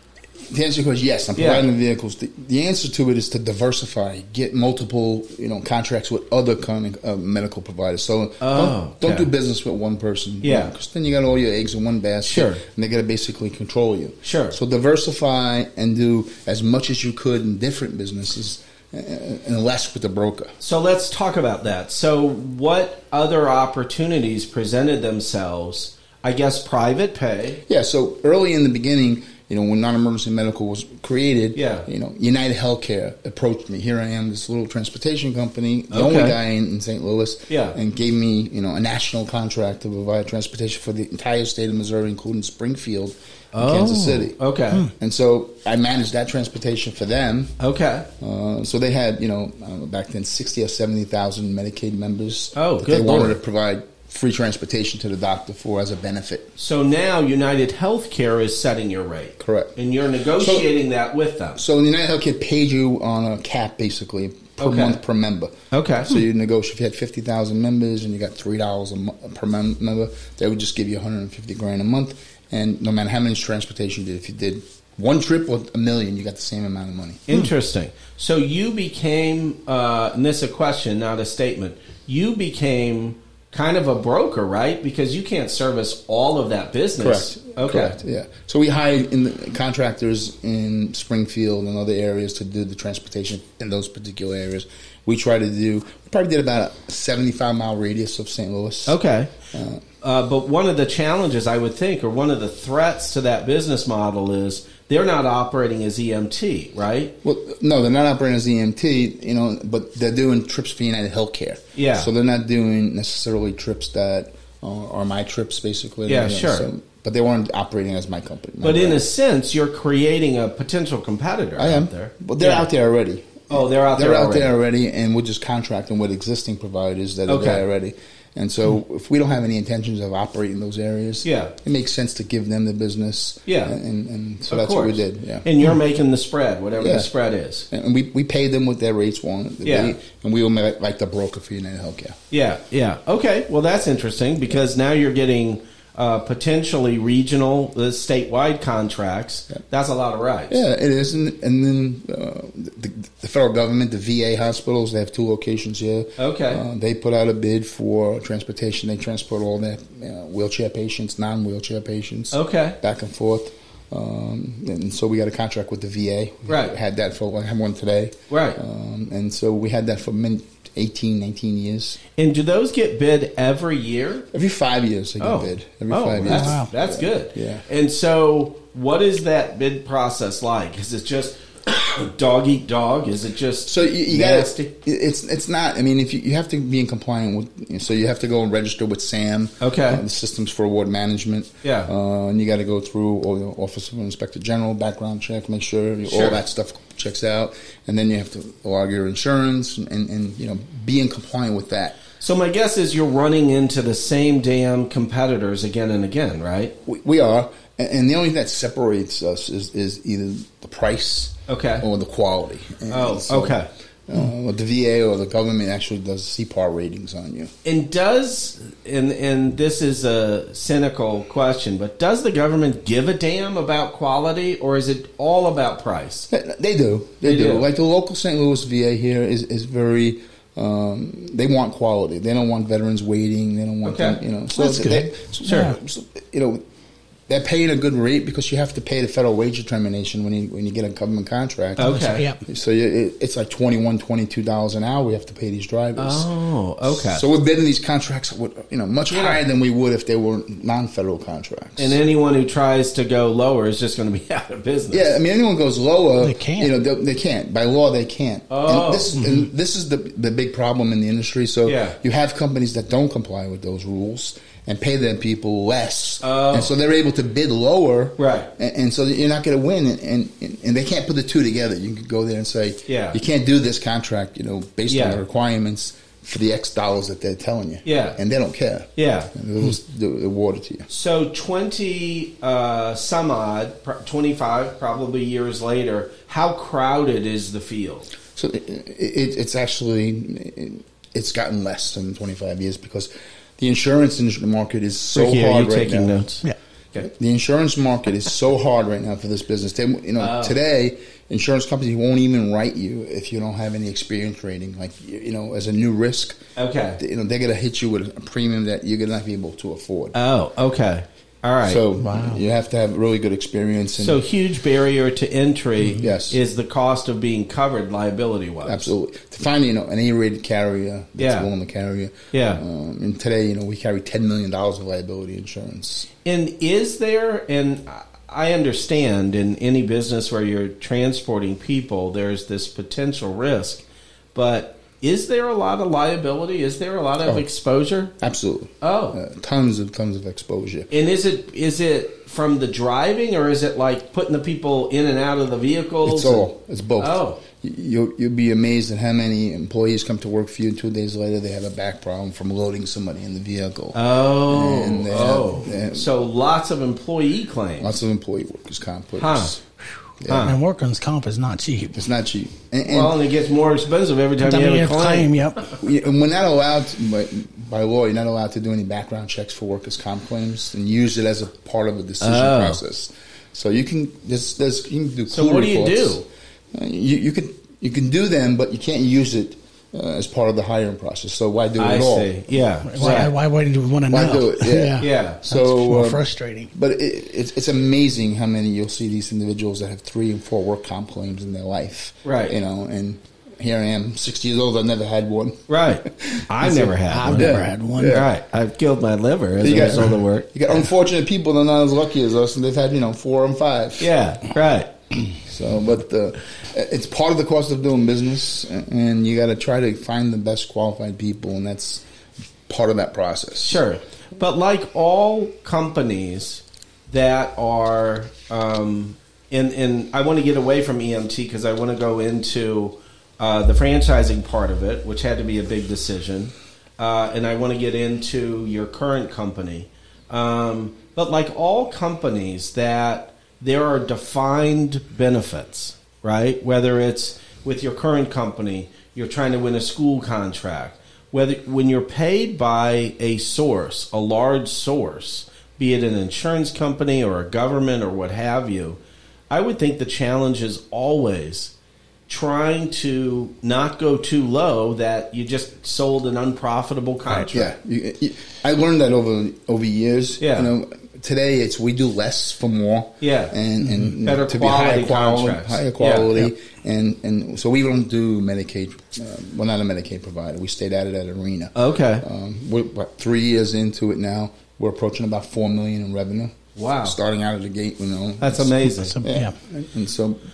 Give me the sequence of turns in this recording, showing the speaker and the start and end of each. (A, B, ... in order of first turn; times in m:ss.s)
0:00.5-0:20.5 A
0:01.4-0:01.6 B
0:08.4-0:09.3 B
0:10.4-0:10.7 B
0:12.2-0:12.6 B
0:14.2-0:14.6 B
0:20.6-0:27.6 B
0:27.7-0:44.4 A
0:31.5-0:31.9 B
0:35.9-0:36.4 B
0:37.5-0:37.8 B
0:43.5-0:44.9 B
0:44.9-0:47.5 A
0:47.6-0:48.1 B
0:48.2-0:56.5 A
0:52.5-0:53.4 B
0:56.6-1:01.6 B
0:59.4-0:59.8 A
1:00.4-1:00.7 A
1:01.6-1:17.2 A
1:04.6-1:05.0 B
1:05.7-1:06.2 B
1:17.3-1:28.0 B
1:27.0-1:39.0 A
1:38.9-1:39.3 B
1:39.5-1:39.8 A
1:40.0-1:47.1 B
1:47.2-1:59.0 A
1:51.7-1:52.1 B
1:56.1-1:56.7 B
1:58.6-2:02.7 B
2:01.6-2:15.5 A
2:03.5-2:04.5 B
2:07.3-2:07.6 B
2:11.2-2:11.5 B
2:13.4-2:13.7 B
2:14.5-2:17.7 B
2:16.8-2:17.1 A
2:17.7-2:22.2 A
2:19.6-2:20.0 B
2:22.3-2:30.6 B
2:30.5-2:52.0 A
2:36.2-2:36.6 B
2:42.3-2:42.8 B
2:46.5-2:46.7 B
2:48.3-2:48.6 B
2:52.2-2:54.3 B
2:54.3-2:57.6 A
2:55.2-3:04.7 B
2:56.3-2:56.7 C
3:03.7-3:22.0 A
3:09.6-3:10.0 B
3:11.6-3:11.9 B
3:16.1-3:16.4 B
3:22.2-3:26.7 B
3:26.8-3:37.5 A
3:31.5-3:31.8 B
3:32.9-3:33.7 B
3:37.6-3:46.3 B
3:46.3-3:56.6 A
3:47.2-3:47.6 B
3:53.8-3:54.2 B
3:54.6-3:55.7 C
3:57.3-4:06.3 A
4:01.8-4:02.2 B
4:01.8-4:02.4 C
4:06.0-4:07.2 B
4:06.8-4:12.0 A
4:09.1-4:09.4 B
4:11.8-4:15.1 B
4:14.9-4:40.9 A
4:16.2-4:16.7 C
4:18.5-4:19.1 B
4:21.6-4:22.0 B
4:26.2-4:26.7 B
4:28.2-4:28.5 B
4:32.9-4:33.2 B
4:34.9-4:35.2 B
4:37.8-4:38.2 B
4:39.0-4:39.3 B
4:40.9-4:48.1 B
4:48.4-4:56.1 A
4:55.1-4:57.1 B
4:57.0-5:06.4 A
5:00.2-5:00.6 B
5:06.6-5:07.0 B
5:07.0-5:10.1 A
5:10.1-5:11.8 B
5:11.6-5:14.2 A
5:12.0-5:12.4 C
5:14.0-5:18.9 B
5:15.9-5:16.4 A
5:18.6-5:26.1 A
5:21.2-5:21.5 B
5:22.3-5:22.6 B
5:26.2-5:38.1 B
5:38.2-5:40.9 A
5:38.8-5:39.2 B
5:40.9-5:46.5 B
5:46.0-5:56.1 A
5:47.0-5:47.4 B
5:53.9-5:57.9 B
5:57.8-5:59.6 A
5:59.2-5:59.6 B
6:00.2-6:00.5 A
6:00.3-6:00.6 B
6:00.4-6:02.0 C
6:01.9-6:03.2 A
6:02.9-6:05.7 B
6:04.4-6:05.6 C
6:05.8-6:22.3 A
6:12.2-6:12.8 B
6:15.3-6:16.2 B
6:21.8-6:23.3 B
6:22.8-6:26.7 C
6:23.0-6:23.3 A
6:24.1-6:26.2 A
6:25.0-6:25.4 B
6:26.7-6:38.3 A
6:32.2-6:32.5 B
6:35.7-6:40.5 B
6:36.7-6:38.2 C
6:39.6-6:44.1 A
6:44.0-6:44.9 B
6:45.4-6:52.0 A
6:52.7-6:53.8 A
6:53.6-7:31.7 B
7:32.3-7:37.7 B
7:37.5-8:00.4 A
7:40.4-7:40.7 B
7:43.2-7:43.5 B
7:44.2-7:46.4 B
7:51.7-7:52.2 B
7:56.8-7:57.2 B
7:58.4-7:59.2 B
7:59.0-7:59.5 C